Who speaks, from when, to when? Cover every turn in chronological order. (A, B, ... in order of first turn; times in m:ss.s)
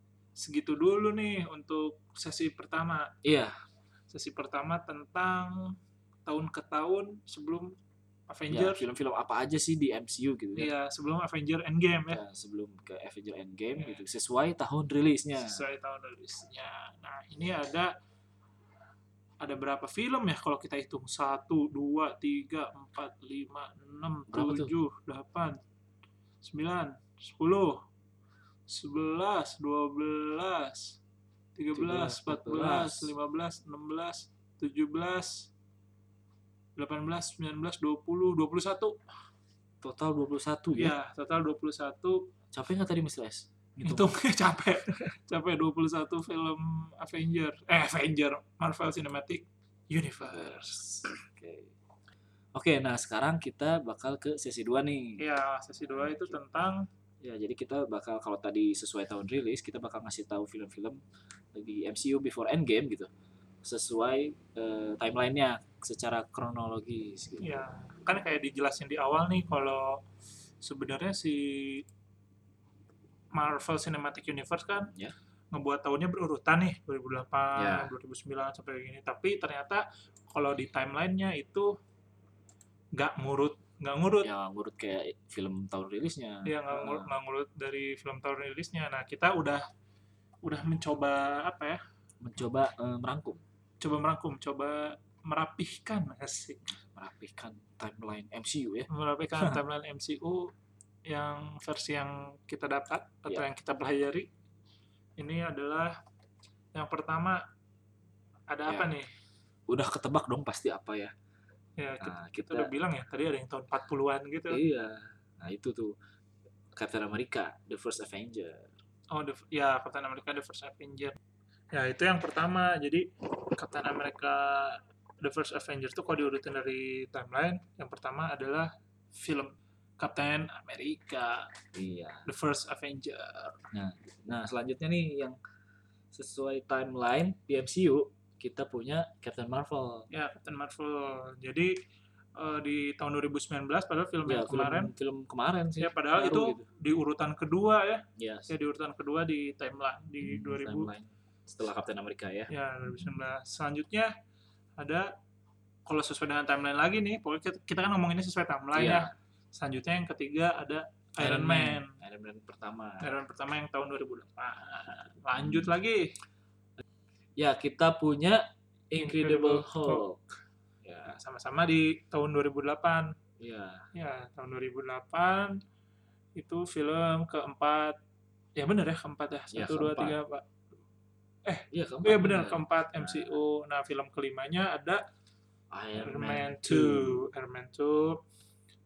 0:00.4-0:03.1 A
0:03.2-0:03.5 B
0:04.1-0:07.8 A
0:08.3-0:08.8 A
0:08.5-0:10.7 B
0:10.6-0:12.2 A
0:12.1-0:15.6 B
0:13.8-0:14.0 A
0:15.4-0:17.9 A
0:19.4-0:25.6 A
0:24.3-0:24.7 B
0:26.4-0:27.8 A
0:28.7-0:31.0 A
0:31.5-0:35.5 A
0:31.7-0:33.1 B
0:36.8-0:39.0 A
0:39.8-0:40.9 B
0:40.8-0:42.3 A
0:42.5-0:44.1 B
0:43.8-0:51.0 A
0:50.2-0:51.7 B
0:52.5-0:55.2 B
0:55.2-0:56.9 A
0:56.0-0:56.4 B
0:57.2-1:01.0 B
1:01.5-1:03.1 B
1:03.6-1:07.6 B
1:07.4-1:10.0 A
1:10.6-1:11.8 A
1:13.3-1:14.9 A
1:15.5-1:21.8 A
1:17.5-1:17.9 B
1:22.9-1:24.3 A
1:24.2-1:27.1 B
1:26.4-1:29.6 A
1:30.4-1:31.8 A
1:32.2-1:33.4 B
1:33.8-1:36.6 A
1:36.7-1:39.6 B
1:38.9-1:40.5 A
1:41.0-1:44.3 A
1:45.2-1:46.0 A
1:46.7-1:47.4 A
1:48.5-1:49.1 A
1:49.7-1:51.1 B
1:51.8-1:54.6 A
1:52.0-1:52.7 B
1:54.5-1:56.0 B
1:56.7-1:58.7 B
1:59.1-2:01.2 A
2:01.7-2:11.5 A
2:11.7-2:12.3 B
2:12.2-2:13.6 A
2:13.7-2:15.4 B
2:16.1-2:20.1 B
2:20.1-2:21.8 A
2:22.4-2:24.9 A
2:24.2-2:26.6 B
2:25.8-2:30.9 A
2:28.2-2:28.5 B
2:30.2-2:32.5 B
2:32.5-2:34.1 A
2:34.8-2:35.1 A
2:35.8-2:42.0 A
2:38.7-2:39.1 B
2:41.2-2:43.1 B
2:43.0-2:46.1 A
2:45.4-2:45.6 B
2:47.4-2:50.2 B
2:49.0-2:50.1 A
2:50.8-2:51.2 B
2:51.1-2:53.1 A
2:53.4-2:53.9 B
2:53.9-2:55.6 A
2:56.4-2:58.0 A
2:58.6-3:00.4 A
2:59.5-3:00.2 B
3:01.4-3:05.0 A
3:01.7-3:03.4 B
3:05.7-3:07.3 B
3:06.0-3:08.2 A